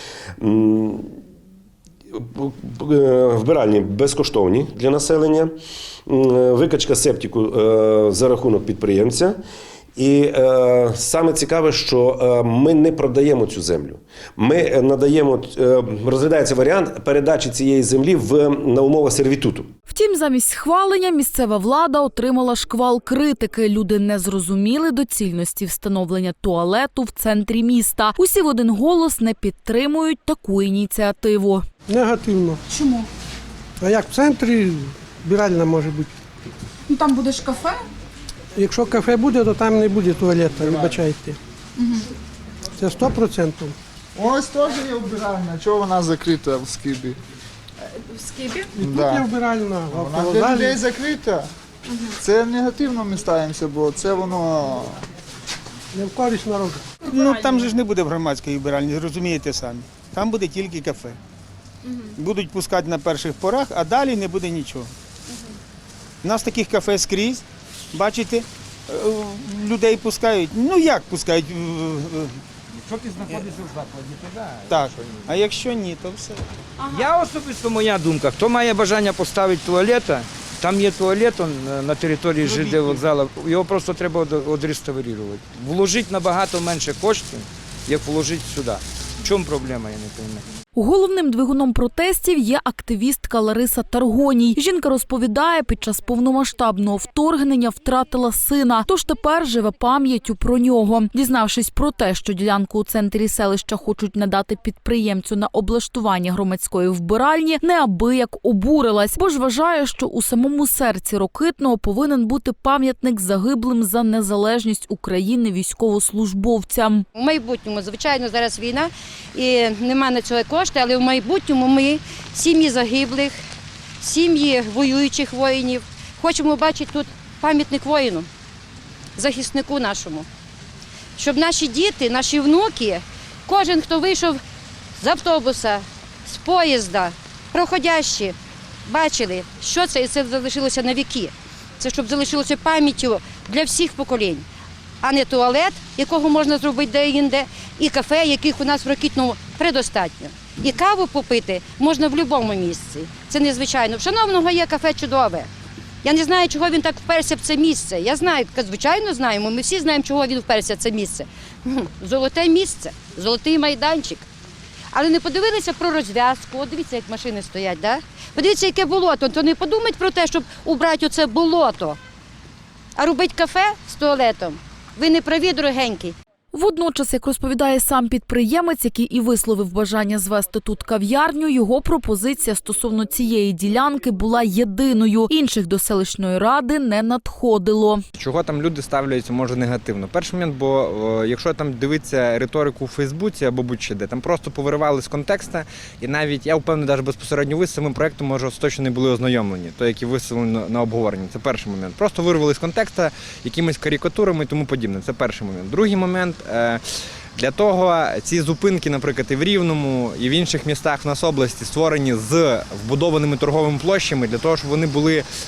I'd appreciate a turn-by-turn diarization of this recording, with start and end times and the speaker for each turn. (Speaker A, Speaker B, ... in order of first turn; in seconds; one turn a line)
Speaker A: 0.4-1.2
Speaker A: 2.1-5.5
Speaker A: 6.1-9.4
Speaker A: 10.0-19.7
Speaker B: 19.9-31.7
Speaker C: 31.9-32.6
Speaker D: 32.7-33.1
Speaker C: 33.8-36.1
Speaker D: 36.9-37.8
Speaker C: 38.6-41.4
Speaker D: 41.8-42.0
Speaker C: 42.8-43.8
Speaker E: 44.1-47.2
Speaker D: 48.1-48.7
Speaker C: 48.7-50.9
Speaker E: 48.9-49.2
Speaker E: 50.0-51.5
Speaker D: 51.9-52.1
Speaker E: 52.2-55.0
Speaker C: 55.9-56.9
Speaker F: 57.0-61.2
Speaker F: 62.2-64.9
Speaker F: 66.2-72.4
Speaker G: 72.8-74.8
Speaker F: 74.7-76.5
Speaker G: 76.9-90.4
Speaker F: 82.4-83.1
Speaker B: 90.8-117.1
Speaker H: 117.2-123.4
Speaker H: 124.0-128.3
Speaker H: 129.2-130.3
Speaker H: 131.2-134.4
Speaker H: 135.0-144.5
Speaker H: 145.0-155.5
Speaker H: 156.0-164.3
Speaker H: 164.9-172.0
Speaker H: 173.0-176.2
Speaker B: 176.5-188.0
Speaker I: 188.2-206.8
Speaker I: 207.4-215.2